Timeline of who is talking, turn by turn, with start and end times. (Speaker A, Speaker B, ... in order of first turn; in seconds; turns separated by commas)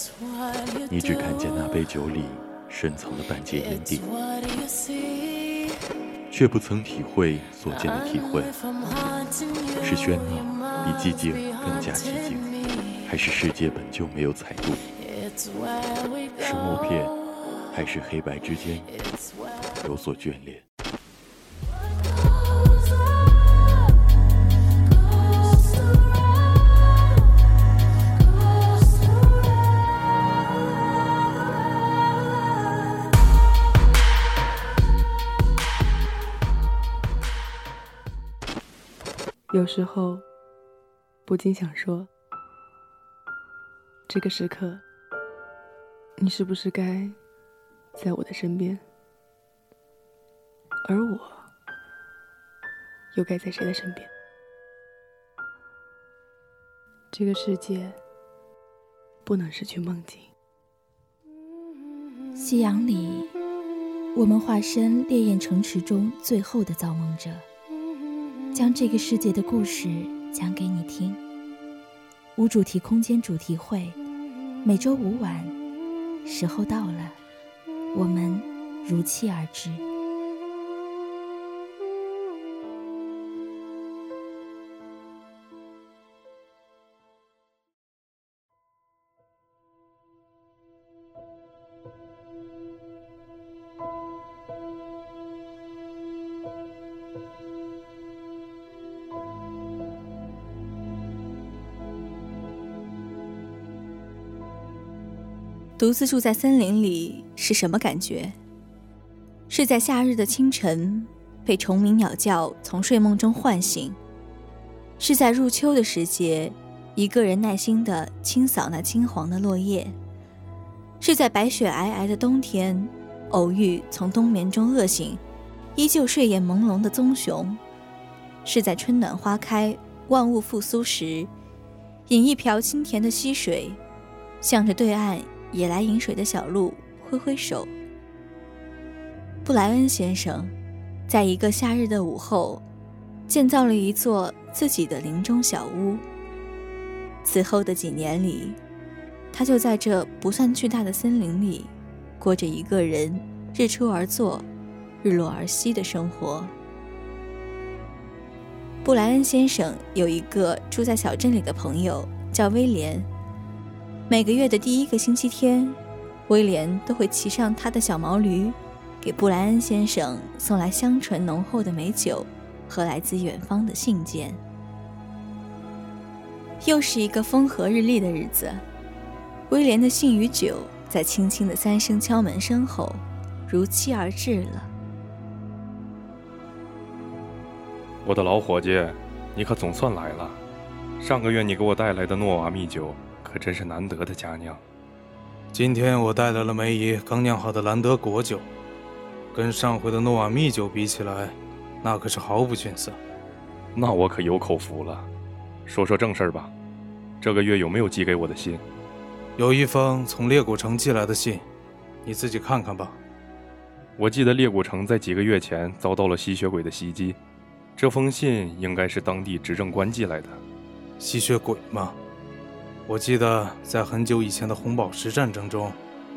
Speaker A: 0.9-4.0, Speaker A: 6.3-8.5, Speaker A: 9.8-12.5, Speaker A: 13.1-14.8, Speaker A: 16.4-17.1, Speaker A: 17.7-18.9, Speaker A: 19.8-20.6, Speaker B: 39.5-40.2, Speaker B: 41.2-42.1, Speaker B: 44.1-44.8, Speaker B: 46.2-47.2, Speaker B: 48.0-48.8, Speaker B: 50.9-51.5, Speaker B: 53.1-54.1, Speaker B: 57.1-58.0, Speaker B: 59.2-60.3, Speaker C: 62.4-63.3, Speaker C: 64.2-67.4, Speaker C: 68.5-71.2, Speaker C: 72.4-74.0, Speaker C: 74.7-75.5, Speaker C: 76.2-77.2, Speaker C: 77.9-79.8, Speaker C: 105.8-108.4, Speaker C: 109.5-114.0, Speaker C: 115.0-120.0, Speaker C: 121.0-125.2, Speaker C: 125.8-127.6, Speaker C: 128.4-131.3, Speaker C: 132.1-133.8, Speaker C: 134.4-137.7, Speaker C: 139.4-140.5, Speaker C: 141.1-142.6, Speaker C: 143.3-146.0, Speaker C: 147.2-148.6, Speaker C: 149.3-154.5, Speaker C: 155.0-156.5, Speaker C: 158.8-163.1, Speaker C: 164.1-174.4, Speaker C: 176.6-178.6, Speaker C: 179.5-184.7, Speaker D: 188.0-190.4, Speaker D: 191.0-194.6, Speaker E: 195.5-198.5, Speaker E: 199.3-203.0, Speaker D: 203.8-205.1, Speaker D: 205.7-206.5, Speaker D: 207.2-208.6, Speaker E: 209.4-211.4, Speaker E: 212.1-213.0, Speaker D: 214.0-217.2, Speaker D: 217.8-220.4, Speaker E: 221.0-222.0, Speaker E: 222.9-225.8